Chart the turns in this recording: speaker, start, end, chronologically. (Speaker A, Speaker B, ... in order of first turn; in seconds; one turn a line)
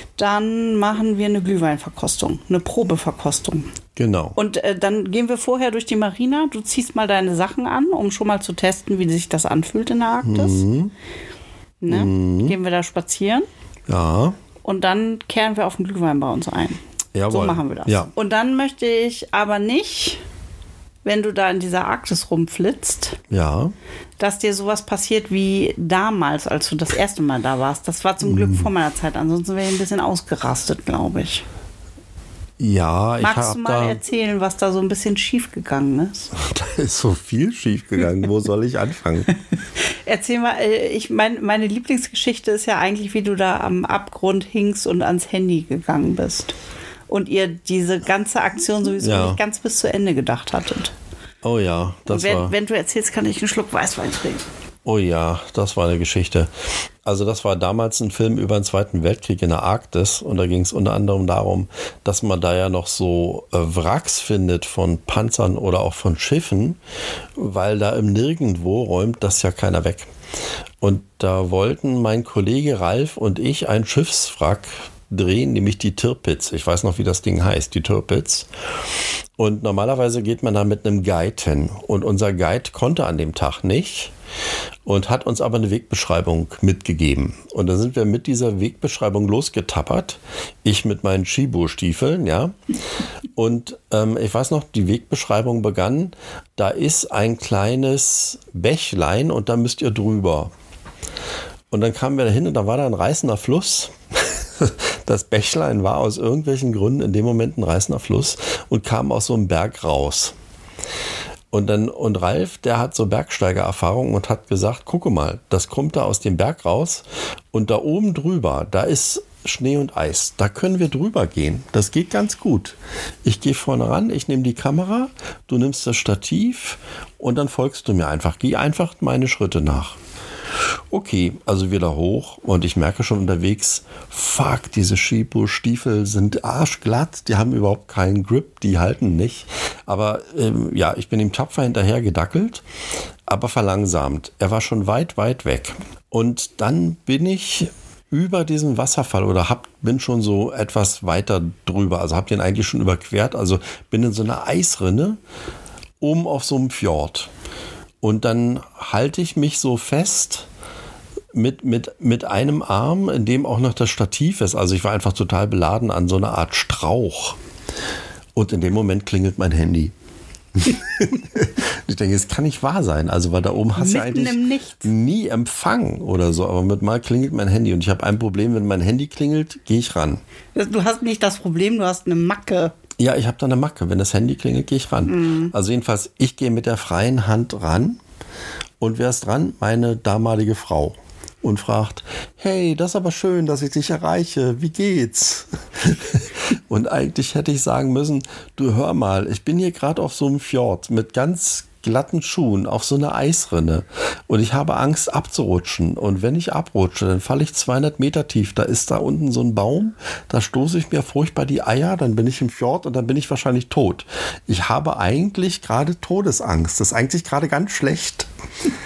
Speaker A: 0.2-3.7
Speaker B: 4.0-4.4
Speaker A: 4.3-10.6
Speaker B: 10.2-10.9
Speaker A: 11.8-13.4
Speaker B: 11.9-12.6
Speaker B: 13.9-14.4
Speaker A: 14.6-20.2
Speaker B: 17.1-18.1
Speaker A: 21.0-23.2
Speaker B: 23.3-23.7
Speaker A: 24.2-31.4
Speaker B: 28.2-28.7
Speaker B: 32.6-34.0
Speaker A: 33.2-36.3
Speaker B: 36.3-39.3
Speaker A: 39.9-46.5
Speaker A: 47.1-50.9
Speaker B: 49.0-49.4
Speaker B: 51.4-52.5
Speaker A: 52.1-54.5
Speaker B: 54.8-56.5
Speaker B: 57.0-66.8
Speaker B: 67.4-70.1
Speaker B: 70.8-78.5
Speaker B: 79.4-84.1
Speaker B: 84.8-92.5
Speaker B: 93.3-100.5
Speaker B: 101.7-110.3
Speaker B: 111.5-130.0
Speaker B: 130.9-142.6
Speaker B: 143.3-155.2
Speaker B: 156.0-157.3
Speaker B: 158.0-160.5
Speaker B: 161.3-167.4
Speaker B: 168.3-169.9
Speaker B: 170.5-180.2
Speaker A: 173.7-174.9
Speaker A: 180.5-182.7
Speaker B: 183.0-188.0
Speaker A: 185.1-185.5
Speaker B: 188.8-218.3